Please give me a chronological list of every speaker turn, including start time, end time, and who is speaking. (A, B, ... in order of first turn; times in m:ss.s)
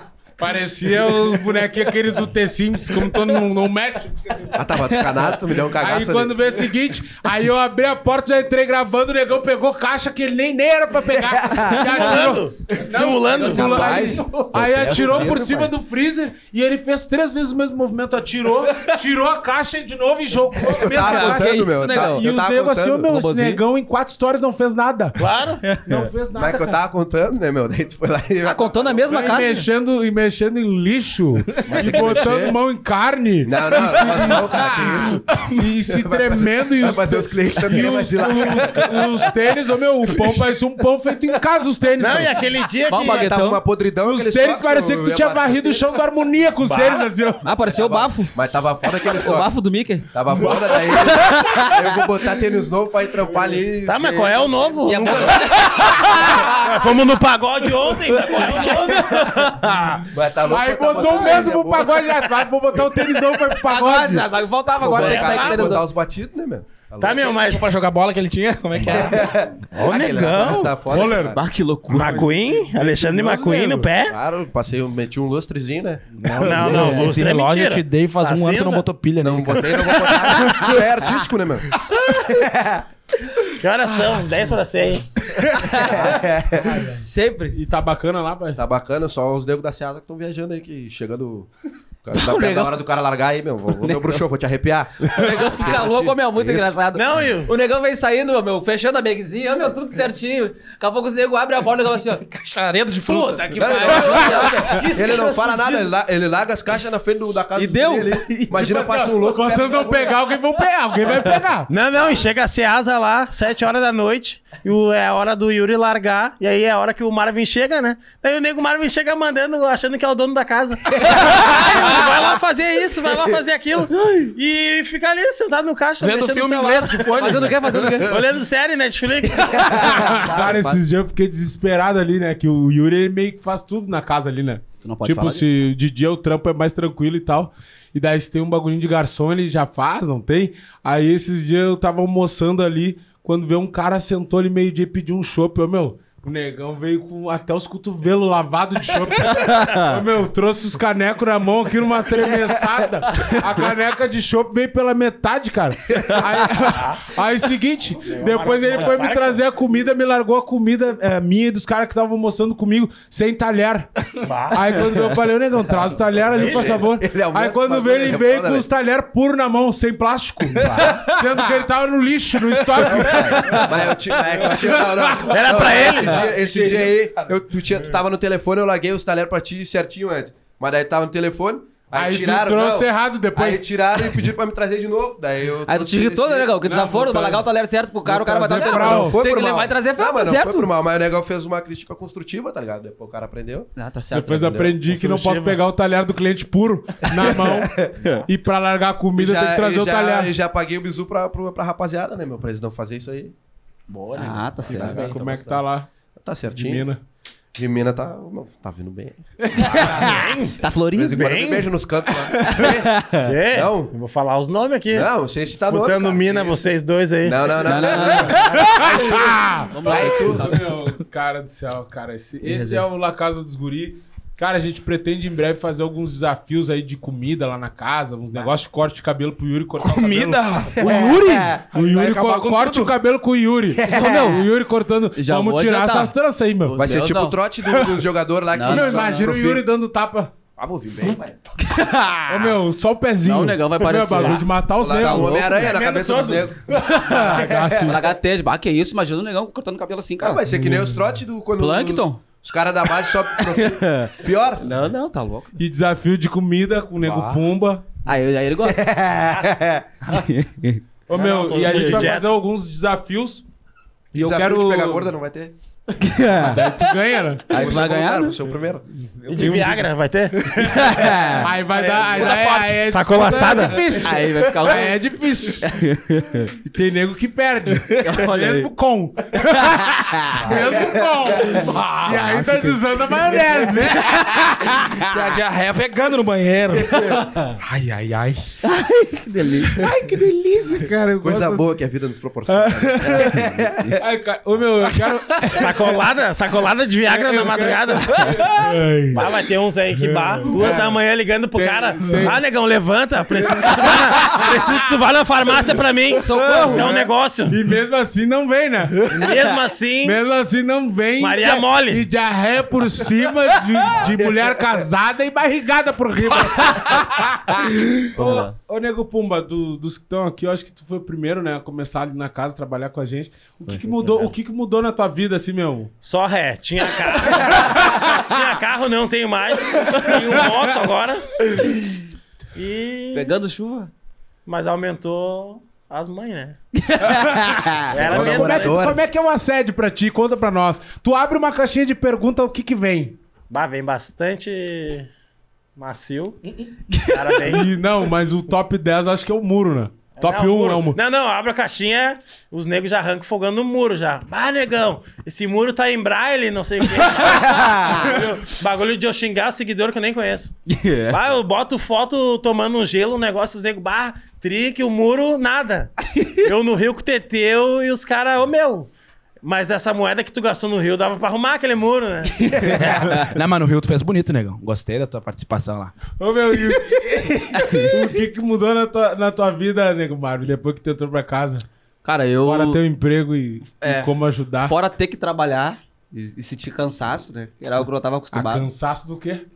0:00.4-0:04.6 A
0:04.5-0:06.6 B
0:04.9-0:05.2 C
0:05.7-0:25.2 A
0:11.1-0:11.9 B
0:11.7-0:12.2 C
0:11.8-0:14.1 D
0:13.3-0:15.7 B
0:14.8-0:15.3 C
0:20.6-0:23.1 B
0:20.7-0:22.2 C
0:23.1-0:23.6 C
0:25.2-0:25.7 D
0:25.6-0:26.1 C
0:25.7-0:26.8 A
0:26.3-0:29.3 B
0:28.4-0:29.7 C
0:29.0-0:42.5 A
0:31.6-0:32.6 B
0:31.9-0:32.1 C
0:33.4-0:39.3 B
0:40.1-0:40.4 B
0:42.0-0:43.3 D
0:42.9-0:43.6 C
0:42.9-0:46.0 B
0:44.0-0:47.4 A
0:46.6-0:47.1 D
0:47.4-0:48.4 C
0:47.7-0:49.5 B
0:49.0-0:52.1 C
0:50.1-0:55.1 B
0:53.8-0:59.4 D
0:54.8-0:56.8 C
0:58.4-0:59.7 C
0:59.9-1:04.3 A
1:00.1-1:02.2 B
1:03.6-1:05.8 C
1:04.8-1:07.3 B
1:04.8-1:05.7 D
1:07.0-1:07.7 D
1:07.2-1:09.3 E
1:08.8-1:11.4 B
1:09.7-1:10.7 D
1:09.8-1:12.3 C
1:10.8-1:11.4 A
1:11.9-1:13.9 A
1:11.9-1:14.2 D
1:14.0-1:16.9 B
1:16.2-1:20.2 E
1:16.3-1:18.8 D
1:16.4-1:16.9 A
1:19.2-1:22.8 B
1:20.4-1:20.8 C
1:23.6-1:25.3 D
1:25.4-1:28.6 A
1:25.5-1:26.2 C
1:25.7-1:26.9 B
1:27.0-1:27.6 C
1:28.6-1:31.5 B
1:32.0-1:36.8 B
1:32.1-1:32.8 C
1:33.8-1:34.2 C
1:35.1-1:42.2 C
1:36.9-1:37.5 D
1:42.2-1:45.8 E
1:43.0-1:45.3 C
1:43.5-1:50.2 B
1:43.9-1:44.5 A
1:47.5-1:48.6 C
1:48.5-1:51.7 A
1:51.7-2:07.2 D
2:04.0-2:04.2 C
2:06.0-2:08.0 E
2:07.1-2:08.2 C
2:07.9-2:10.5 D
2:09.6-2:10.1 B
2:09.7-2:57.0 A
2:10.0-2:10.8 C
2:14.8-2:15.4 C
2:29.3-2:29.9 C
2:36.6-2:37.1 D
2:38.0-2:39.4 D
2:44.2-2:44.6 D
2:46.1-2:48.7 B
2:46.4-2:46.8 D
2:50.6-2:51.4 C
2:52.8-2:53.8 C
2:52.8-3:06.6 B
2:55.3-2:56.2 D
3:01.9-3:04.1 A
3:05.7-3:10.7 C
3:06.6-3:07.4 A
3:08.1-3:09.2 A
3:08.4-3:13.7 B
3:13.8-3:14.7 C
3:14.1-3:20.3 A
3:14.4-3:14.8 B
3:14.9-3:15.6 D
3:17.1-3:17.9 B
3:19.2-3:23.3 B
3:23.9-3:25.6 E
3:24.1-3:25.2 C
3:24.7-3:25.9 A
3:24.7-3:25.1 B
3:26.2-3:26.9 B
3:26.5-3:27.0 A
3:27.5-3:30.1 B
3:29.7-3:31.4 C
3:29.7-3:30.0 E
3:30.0-3:30.6 D
3:30.9-3:33.9 B
3:31.1-3:31.6 D
3:32.4-3:33.2 C
3:33.2-3:35.1 D
3:34.9-3:36.6 B
3:35.6-3:37.6 D
3:37.2-3:39.3 B
3:37.6-3:40.6 C
3:38.0-3:56.8 A
3:38.3-3:38.8 D
3:39.8-3:40.5 B
3:42.4-3:42.8 C
3:49.8-3:52.9 E
3:50.8-3:51.4 B
3:53.8-3:54.4 C
3:53.9-3:54.4 E
3:55.1-3:57.4 C
3:56.8-3:59.6 B
3:57.7-3:58.0 A
3:58.5-3:59.3 C
3:58.6-4:00.3 A
4:00.6-4:01.4 B
4:01.6-4:02.6 C
4:02.3-4:05.6 A
4:03.2-4:05.6 C
4:04.8-4:08.0 B
4:05.6-4:06.5 D
4:06.7-4:08.0 A
4:07.1-4:10.4 C
4:10.2-4:14.7 B
4:10.5-4:11.0 A
4:11.6-4:12.2 C
4:13.3-4:15.6 C
4:15.6-4:17.8 A
4:17.0-4:17.5 E
4:18.0-4:19.0 C
4:18.8-4:19.8 B
4:20.0-4:20.8 C
4:21.1-4:23.4 A
4:21.1-4:22.3 D
4:21.7-4:22.1 C
4:24.1-4:25.1 A
4:24.1-4:25.5 B
4:26.0-4:27.0 C
4:26.3-4:27.5 A
4:27.5-4:28.4 C
4:27.5-4:28.8 B
4:29.2-4:30.6 D
4:29.4-4:29.7 A
4:30.5-4:31.5 C
4:30.8-4:35.9 A
4:31.7-4:34.0 D
4:32.0-4:32.8 C
4:33.8-4:36.5 C
4:36.6-4:44.3 A
4:38.0-4:38.7 C
4:39.3-4:40.5 C
4:40.6-4:41.6 B
4:41.4-4:42.8 E
4:43.7-4:48.6 E
4:46.7-4:47.2 B
4:48.6-4:49.8 C
4:49.8-4:51.6 A
4:49.8-4:50.9 E
4:51.2-4:54.0 B
4:52.8-4:53.5 E
4:53.0-4:53.3 A
4:54.0-4:56.0 A
4:55.5-4:58.4 D
4:57.1-4:59.4 A
4:57.4-4:58.5 E
4:59.1-5:07.6 D
5:00.0-5:01.0 A
5:01.6-5:02.4 A
5:03.5-5:04.8 A
5:06.1-5:06.9 C
5:06.3-5:09.4 A
5:09.1-5:10.2 D
5:10.0-5:25.9 A
5:11.2-5:12.1 D
5:14.1-5:14.4 B
5:18.1-5:18.5 C
5:23.7-5:24.3 C
5:26.0-5:31.4 D
5:29.9-5:30.2 A
5:32.5-5:33.3 D
5:33.1-5:33.9 C
5:34.4-5:36.6 D
5:36.8-5:37.9 C
5:37.0-5:43.2 A
5:37.9-5:38.8 D
5:38.0-5:39.0 B
5:43.5-5:45.1 D
5:45.8-5:46.4 D
5:47.1-5:47.7 D
5:47.4-5:51.0 A
5:50.1-6:00.5 D
6:00.7-6:01.3 C
6:01.1-6:08.9 D
6:09.4-6:13.2 D
6:12.4-6:16.0 E
6:16.2-6:21.6 A
6:22.0-6:22.8 C
6:22.4-6:24.7 A
6:23.8-6:28.7 C
6:28.3-6:29.4 A